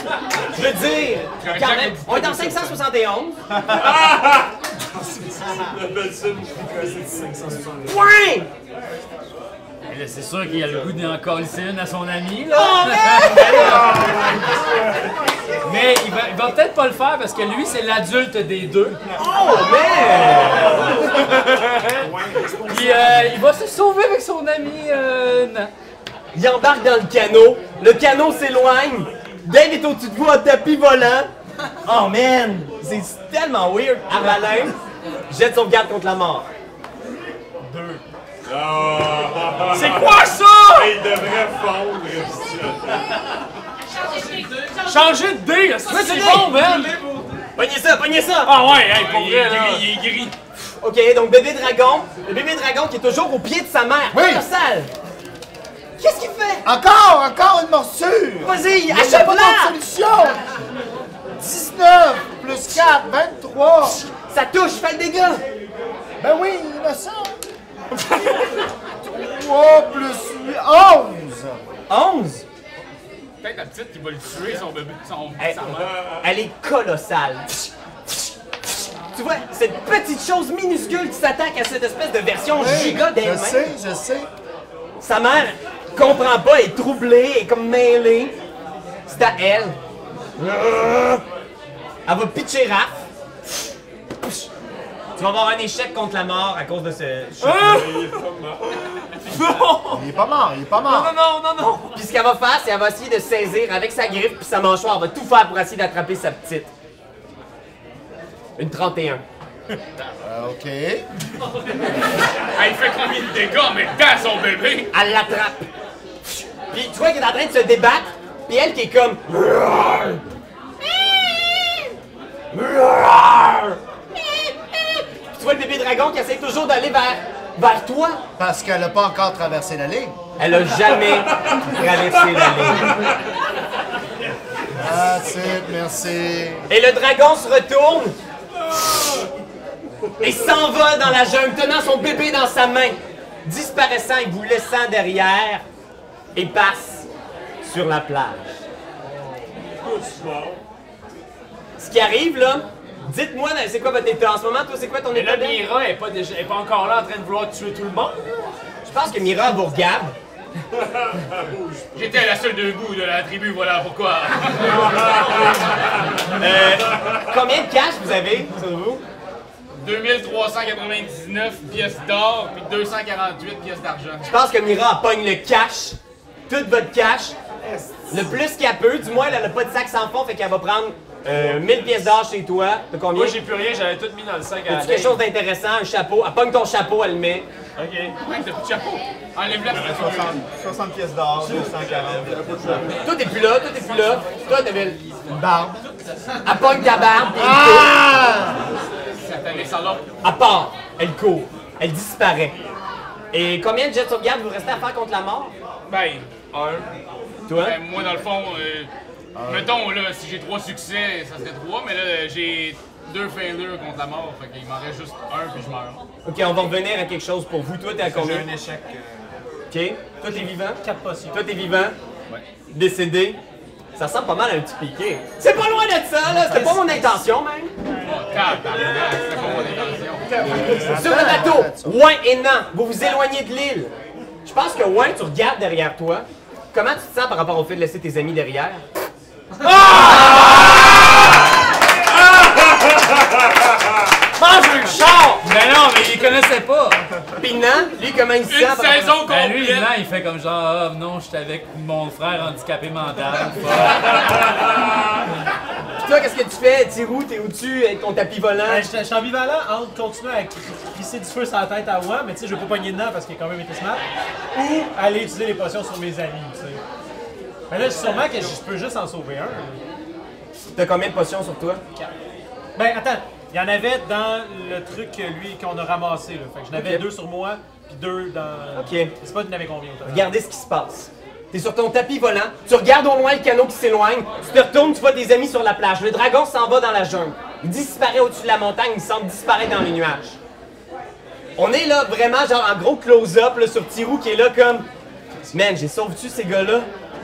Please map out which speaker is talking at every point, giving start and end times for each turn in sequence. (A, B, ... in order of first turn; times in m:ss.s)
0:00.5-0:03.4 A
0:01.4-0:02.8 B
0:03.5-0:07.9 C
0:07.8-0:08.5 A
0:09.9-0:13.9 D
0:12.5-0:13.9 A
0:13.5-0:15.1 C
0:15.6-0:19.0 D
0:19.0-0:19.4 E
0:19.2-0:20.9 A
0:20.6-0:20.8 E
0:21.1-0:21.8 D
0:22.0-0:22.6 E
0:22.7-0:25.7 D
0:26.3-0:31.3 A
0:31.8-0:34.8 A
0:35.3-0:36.5 A
0:38.4-0:43.1 C
0:39.7-0:40.9 F
0:44.7-0:47.2 F
0:45.9-0:47.0 A
0:47.6-0:48.5 A
0:48.4-0:49.9 F
0:48.7-0:50.4 B
0:50.6-0:54.9 A
0:54.1-0:54.4 G
0:56.0-0:56.7 A
0:56.6-1:00.4 G
0:58.4-0:59.8 A
1:01.4-1:04.0 G
1:04.1-1:05.4 A
1:06.2-1:07.4 G
1:09.0-1:11.6 G
1:11.9-1:12.4 A
1:13.4-1:15.9 B
1:15.4-1:18.2 A
1:19.1-1:23.7 A
1:22.5-1:24.3 G
1:25.0-1:28.4 A
1:29.1-1:29.8 A
1:30.4-1:31.2 A
1:32.1-1:33.0 A
1:34.2-1:34.5 A
1:35.2-1:37.9 A
1:37.4-1:40.1 F
1:37.7-1:38.6 C
1:39.9-1:41.2 G
1:40.8-1:42.0 F
1:41.9-1:46.7 A
1:48.6-1:49.2 A
1:50.2-1:51.0 G
1:52.6-1:54.9 B
1:54.9-1:55.7 A
1:56.2-2:00.2 A
2:00.8-2:01.9 A
2:02.5-2:08.2 A
2:08.4-2:10.2 G
2:10.4-2:13.2 A
2:14.8-2:16.7 G
2:16.7-2:18.2 A
2:20.2-2:25.6 A
2:26.4-2:27.1 A
2:27.6-2:28.6 A
2:29.7-2:30.6 C
2:31.8-2:35.6 A
2:35.1-2:38.3 F
2:38.8-2:40.2 A
2:41.1-2:41.8 C
2:41.9-2:44.9 B
2:45.0-2:45.4 C
2:46.4-2:49.0 A
2:49.8-2:54.2 B
2:54.2-2:57.4 A
2:57.7-2:58.0 F
2:58.1-3:03.4 A
3:03.1-3:05.2 F
3:04.7-3:07.5 A
3:07.8-3:08.2 F
3:08.2-3:10.4 B
3:09.7-3:12.9 E
3:13.0-3:15.2 A
3:15.3-3:15.8 G
3:16.4-3:17.9 A
3:17.4-3:18.7 G
3:19.2-3:20.1 B
3:20.2-3:22.6 A
3:23.3-3:25.5 A
3:25.9-3:26.8 B
3:27.5-3:27.8 A
3:27.6-3:28.9 B
3:29.4-3:29.8 G
3:29.4-3:36.0 B
3:36.2-3:38.5 A
3:38.0-3:39.3 E
3:39.7-3:42.0 A
3:40.3-3:41.4 H
3:42.7-3:43.4 A
3:44.0-3:47.7 A
3:48.0-3:50.3 B
3:50.4-3:52.0 G
3:50.7-3:53.9 A
3:54.4-3:58.8 A
3:59.6-4:00.9 F
4:02.1-4:03.4 C
4:04.4-4:05.4 F
4:04.8-4:05.3 A
4:05.4-4:07.0 D
4:07.4-4:09.2 A
4:08.5-4:09.9 B
4:09.3-4:14.2 D
4:16.0-4:18.9 A
4:18.7-4:26.8 H
4:27.7-4:29.8 H
4:30.8-4:31.8 A
4:32.8-4:40.3 H
4:36.7-4:37.1 A
4:38.7-4:39.1 A
4:40.0-4:50.4 A
4:51.6-4:54.9 A
4:55.5-4:56.9 A